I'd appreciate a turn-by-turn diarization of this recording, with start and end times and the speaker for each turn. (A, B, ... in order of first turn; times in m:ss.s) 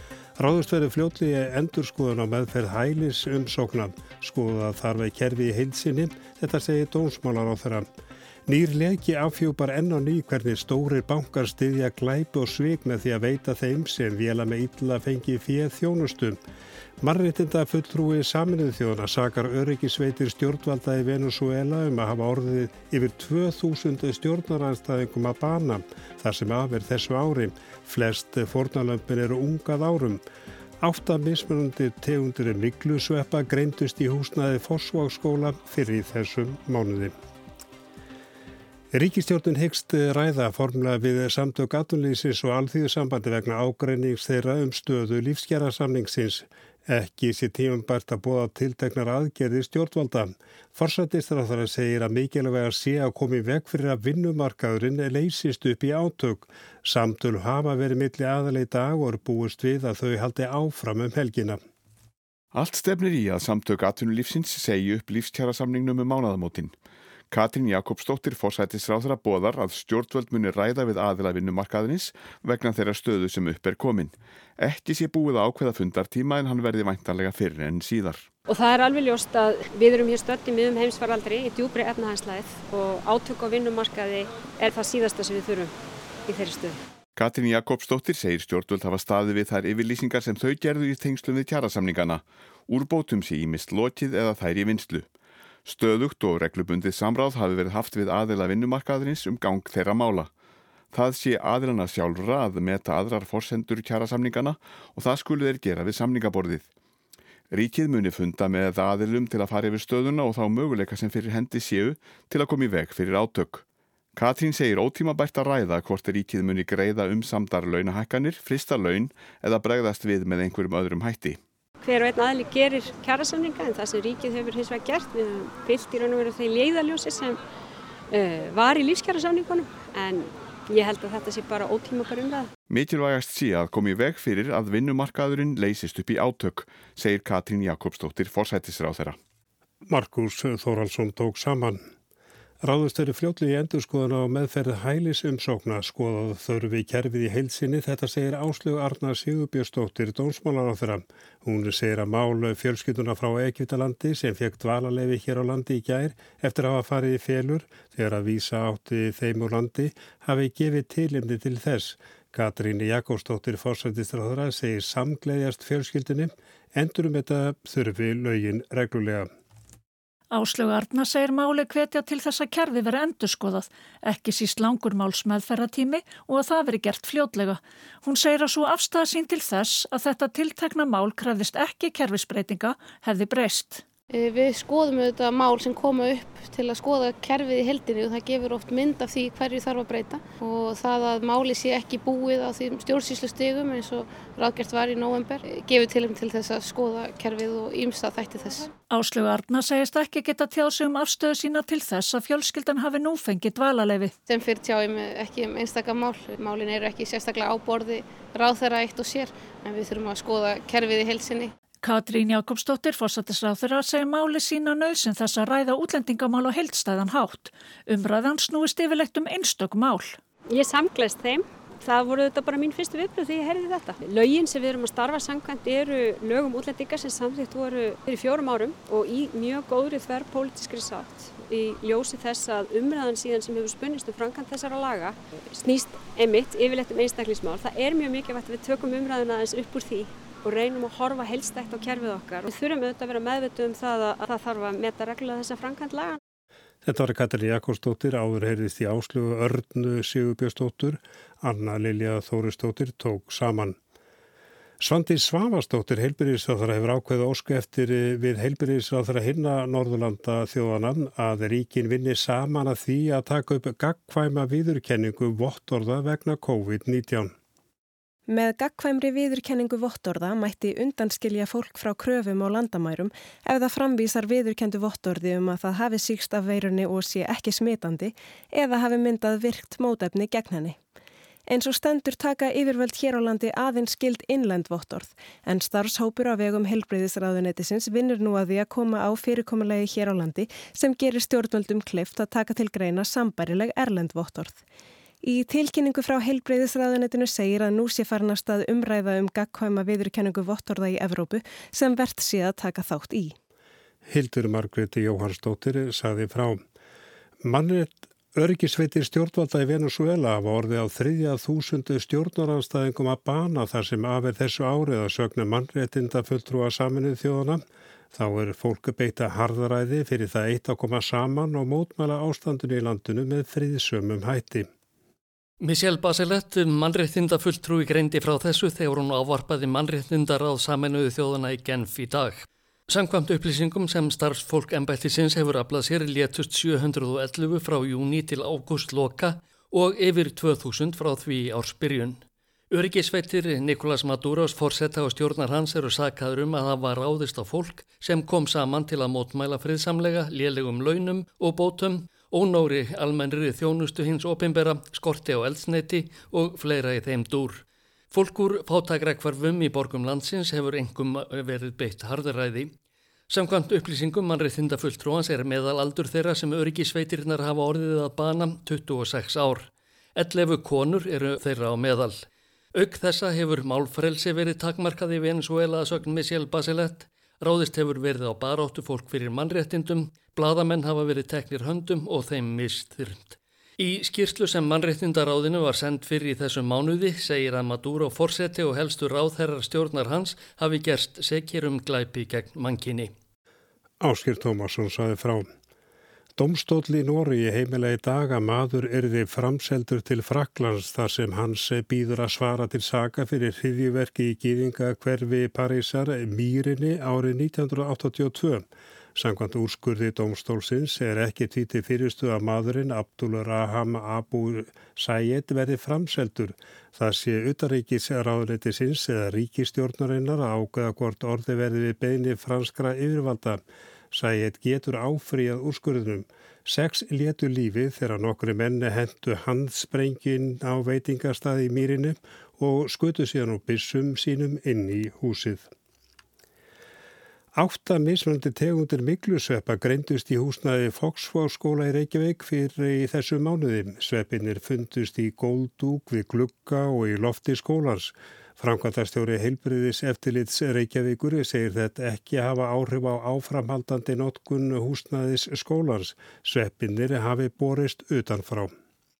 0:00.4-0:07.9 A
0:08.5-0:16.4 A
0:17.0-0:30.2 A
0:30.8-0:37.1 A
0:38.9-1:01.6 A
1:02.5-1:06.8 B
1:07.3-1:18.3 B
1:18.5-1:25.7 C
1:26.3-1:26.8 C
1:27.2-1:35.1 B
1:35.6-1:40.3 B
1:40.9-1:46.7 B
1:47.5-1:53.6 B
1:54.2-2:01.4 B
2:01.8-2:07.4 C
2:08.1-2:12.5 C
2:12.7-2:19.2 B
2:19.9-2:21.8 A
2:22.6-2:49.3 A
2:50.3-3:03.8 D
3:04.1-3:18.7 E
3:18.9-3:24.1 D
3:24.3-3:31.5 E
3:31.8-3:40.2 D
3:40.5-4:06.2 C
4:06.8-4:13.8 A
4:14.8-4:27.3 A
4:28.3-4:40.8 F
4:41.5-4:54.6 F
4:55.2-5:03.4 F
5:04.1-5:06.6 A
5:07.4-5:24.7 A
5:25.6-6:02.7 G
6:03.3-6:12.2 G
6:12.8-6:33.1 G
6:34.0-6:35.5 A
6:36.4-7:15.7 A
7:17.6-7:38.7 A